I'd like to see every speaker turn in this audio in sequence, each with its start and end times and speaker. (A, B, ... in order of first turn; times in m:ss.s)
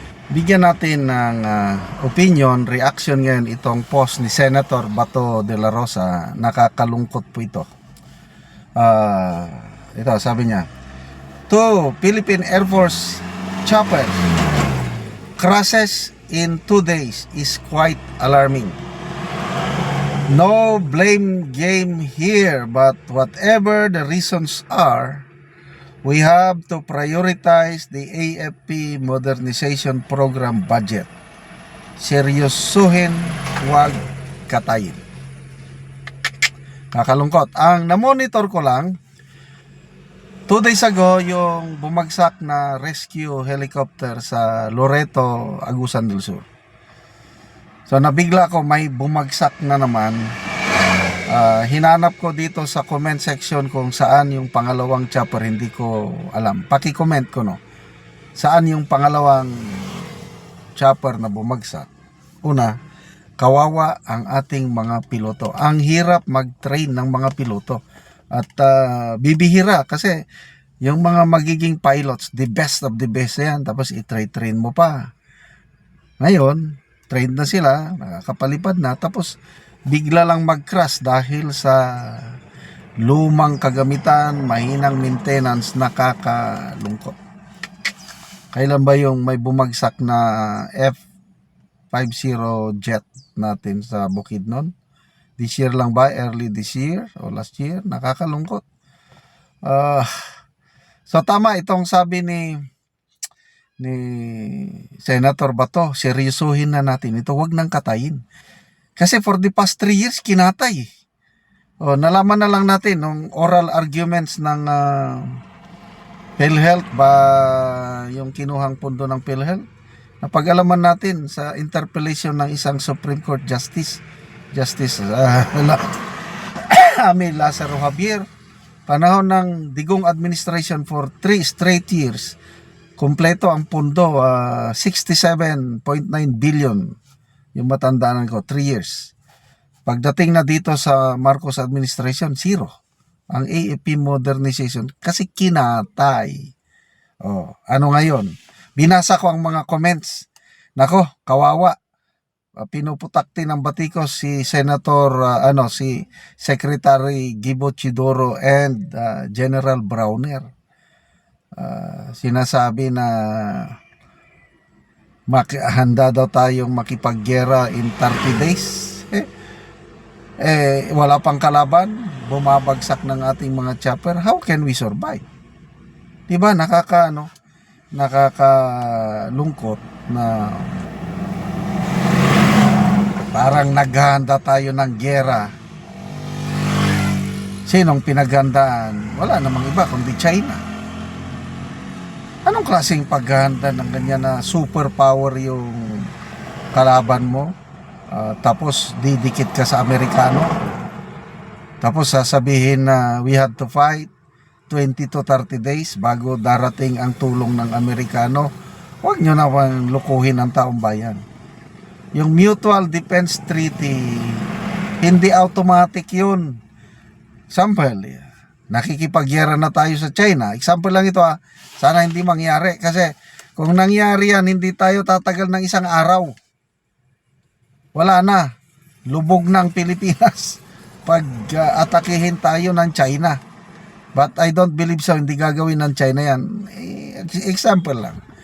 0:00.3-0:07.7 A
0:08.8-0:10.7 A
0:11.5-0:14.3 A
0:15.4-0:18.8 A
0:20.3-0:25.3 A
0:26.0-0:31.1 A
0:32.0-0:35.0 A
0:36.9-0:38.9 A
0:40.5-0:46.4 A
0:47.9-0:50.3 A
0:51.3-0:57.6 A
0:58.4-1:00.1 A
1:00.8-1:01.9 A
1:02.4-1:02.7 A
1:03.4-1:07.8 A
1:08.4-1:10.2 A
1:10.8-1:15.1 A
1:16.2-1:19.3 A
1:19.9-1:22.4 A
1:23.0-1:27.2 A
1:28.5-1:31.0 A
1:31.9-1:34.7 A
1:35.4-1:38.6 A
1:39.7-1:40.1 A
1:41.1-1:42.6 A
1:43.8-1:48.2 A
1:49.0-1:50.9 A
1:51.8-1:55.4 A
1:56.4-1:59.6 A
2:00.2-2:04.0 A
2:04.5-2:05.9 A
2:06.7-2:08.2 A
2:08.9-2:12.4 A
2:13.0-2:16.9 A
2:17.6-2:19.1 A
2:19.9-2:22.7 A
2:23.3-2:26.5 A
2:27.3-2:30.2 A
2:30.8-2:31.8 A
2:32.6-2:40.5 A
2:41.6-2:43.7 A
2:45.3-2:49.3 A
2:50.4-2:55.2 A
2:56.3-2:57.3 A
2:58.0-3:00.7 A
3:03.3-3:05.5 A
3:07.7-3:10.6 A
3:12.5-3:16.1 A
3:16.7-3:17.5 A
3:18.1-3:20.5 A
3:21.8-3:24.1 A
3:24.7-3:28.5 A
3:29.0-3:31.2 A
3:32.2-3:34.5 A
3:35.0-3:36.6 A
3:37.5-3:46.3 A
3:48.0-3:48.5 A
3:49.1-3:53.4 A
3:54.2-3:58.2 A